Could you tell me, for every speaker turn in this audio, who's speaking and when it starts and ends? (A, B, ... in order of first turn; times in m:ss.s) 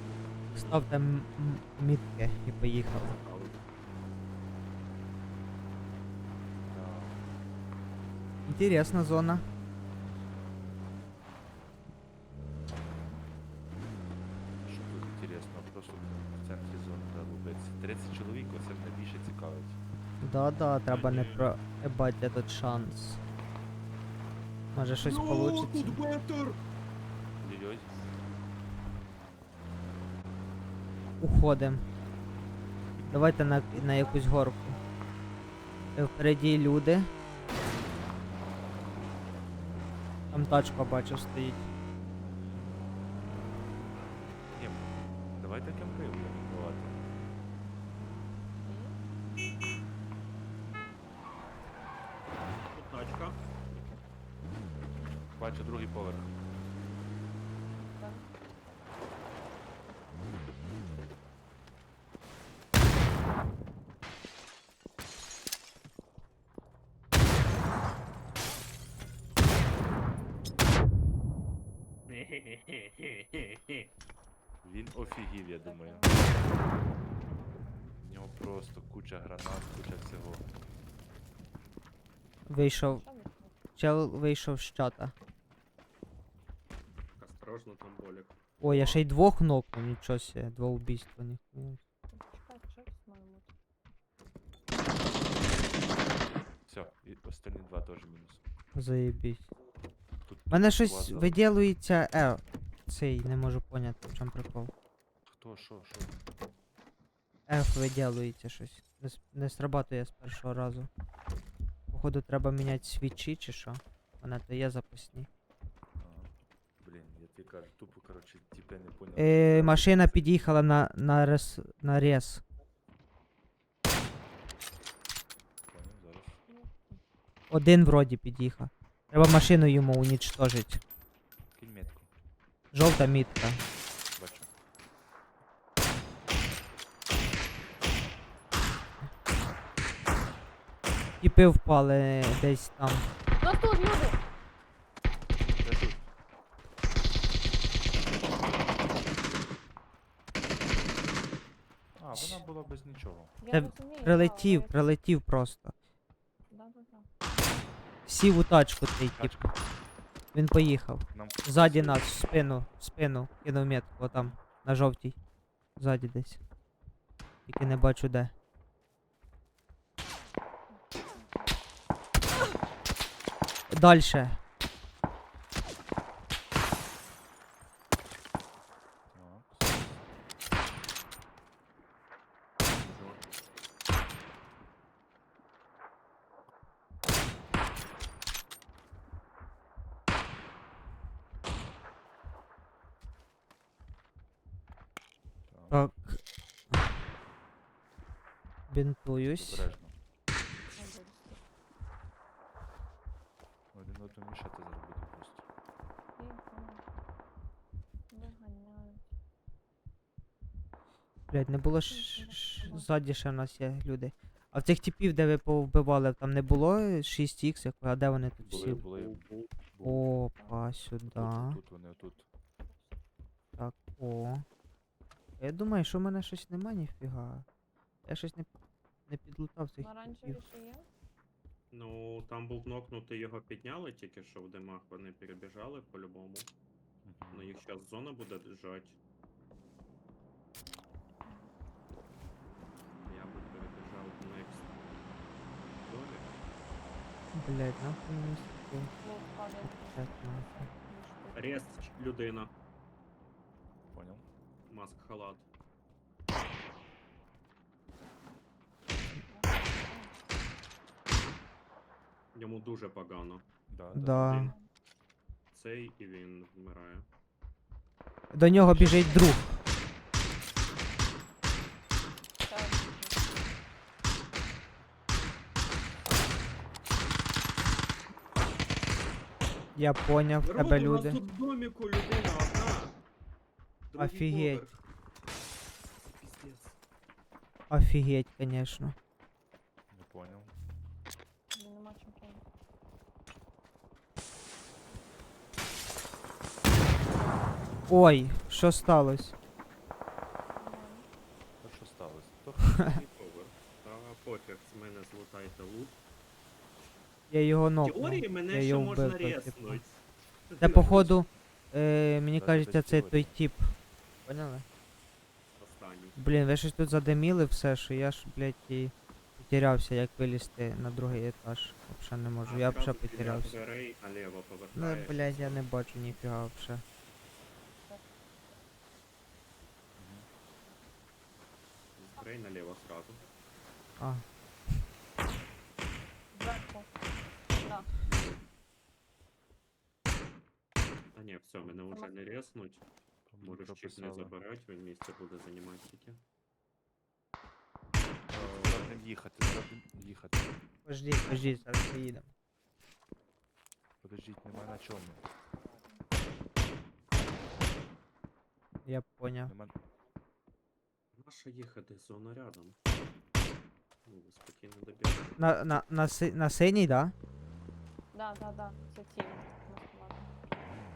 0:00.5-0:00.8 A
0:00.5-0:03.1 B
0:02.8-0:03.6 A
0:06.6-0:07.2 C
0:08.4-0:09.4 B
0:14.6-0:19.8 C
0:20.2-0:23.2 B
0:20.9-0:21.5 A
0:24.7-0:26.0 B
0:25.0-0:26.6 A
0:27.4-0:28.0 C
0:31.2-0:31.8 B
0:33.1-0:34.8 B
0:33.9-0:34.3 D
0:35.9-0:37.1 B
0:40.3-0:41.7 B
0:42.4-0:42.8 C
0:44.5-0:47.1 C
0:48.6-0:49.0 D
0:52.7-0:53.4 A
0:55.4-0:56.3 C
0:57.9-0:58.3 D
1:12.1-1:13.9 A
1:14.6-1:16.1 C
1:15.5-1:17.8 D
1:18.0-1:20.5 C
1:22.5-1:23.0 B
1:22.8-1:23.5 D
1:23.8-1:25.1 B
1:27.2-1:29.0 A
1:28.6-1:31.8 B
1:32.1-1:33.5 D
1:36.7-1:38.4 C
1:38.7-1:39.5 B
1:40.2-1:41.4 C
1:40.5-1:44.7 B
1:45.2-1:46.1 C
1:47.5-1:50.9 B
1:51.9-1:55.3 B
1:56.0-2:00.4 C
1:59.2-2:02.4 B
2:05.7-2:06.4 C
2:06.5-2:07.0 D
2:07.5-2:10.8 B
2:11.5-2:12.1 C
2:12.7-2:13.6 B
2:14.1-2:14.5 C
2:21.2-2:23.1 B
2:23.4-2:24.2 D
2:25.6-2:26.1 C
2:32.0-2:33.3 C
2:32.1-2:32.4 B
2:33.4-2:34.9 D
2:33.5-2:35.7 B
2:36.5-2:37.1 D
2:38.0-2:39.5 B
2:39.2-2:39.5 C
2:40.3-2:45.2 B
2:41.1-2:42.0 C
2:44.0-2:44.4 C
2:45.8-2:46.4 B
2:47.5-2:48.3 B
2:50.7-2:51.6 D
2:53.7-2:54.4 B
2:59.1-3:00.0 C
3:02.8-3:03.2 A
3:15.5-3:15.8 C
3:15.7-3:16.2 B
3:18.7-3:19.7 B
3:19.3-3:19.9 C
3:20.7-3:21.4 D
3:23.7-3:25.4 C
3:26.2-3:27.0 D
3:28.1-3:29.1 D
3:31.3-3:38.8 B
3:31.9-3:32.9 D
3:38.4-3:40.1 C
3:38.5-3:39.5 A
3:39.8-3:41.6 B
3:40.3-3:40.6 D
3:41.1-3:42.2 C
3:42.6-3:43.0 D
3:43.6-3:44.4 B
3:45.4-3:47.5 B
3:48.0-3:48.5 B
3:49.1-3:50.4 B
3:49.8-3:50.9 D
3:51.7-3:56.5 A
3:57.0-3:57.5 C
3:57.3-3:59.0 A
4:01.2-4:01.5 D
4:03.0-4:05.0 A
4:05.6-4:06.4 A
4:07.3-4:08.9 B
4:09.0-4:11.8 D
4:09.7-4:10.7 B
4:11.3-4:12.5 A
4:13.9-4:14.2 C
4:14.6-4:15.4 A
4:19.1-4:20.2 D
4:22.3-4:23.4 A
4:23.7-4:24.4 C
4:23.9-4:24.5 B
4:24.0-4:24.5 A
4:25.5-4:27.0 A
4:28.3-4:29.6 B
4:28.7-4:29.4 D
4:28.7-4:29.2 A
4:32.4-4:33.4 D
4:39.7-4:41.2 B
4:40.4-4:43.0 A
4:43.9-4:44.8 A
4:44.0-4:44.6 B
4:46.0-4:46.8 A
4:47.7-4:49.0 B
4:49.9-4:50.5 C
4:51.5-4:52.4 D
4:57.9-4:59.3 B
5:00.5-5:01.1 D
5:01.6-5:02.9 C
5:02.8-5:06.0 A
5:07.3-5:09.8 B
5:07.8-5:11.2 A
5:10.6-5:13.7 B
5:12.3-5:13.4 C
5:14.2-5:14.6 B
5:15.6-5:16.2 A
5:16.2-5:23.5 B
5:22.4-5:25.6 A
5:24.7-5:26.8 B
5:27.8-5:28.2 D
5:30.0-5:30.3 C
5:30.6-5:30.9 D
5:32.0-5:33.2 A
5:34.0-5:34.2 B
5:36.3-5:37.0 D
5:37.6-5:38.0 D
5:38.0-5:38.4 C
5:41.1-5:42.8 A
5:41.9-5:42.4 D
5:43.3-5:44.3 C
5:43.4-5:46.2 A
5:48.3-5:50.6 C
5:48.3-5:49.0 A
5:50.8-5:52.3 B
5:51.2-5:51.7 D
5:54.0-5:55.2 C
5:55.5-5:56.1 D
5:58.8-5:59.5 B
5:59.4-5:59.7 C
6:01.1-6:02.8 A
6:04.0-6:05.4 A
6:05.4-6:07.1 B
6:08.1-6:10.3 D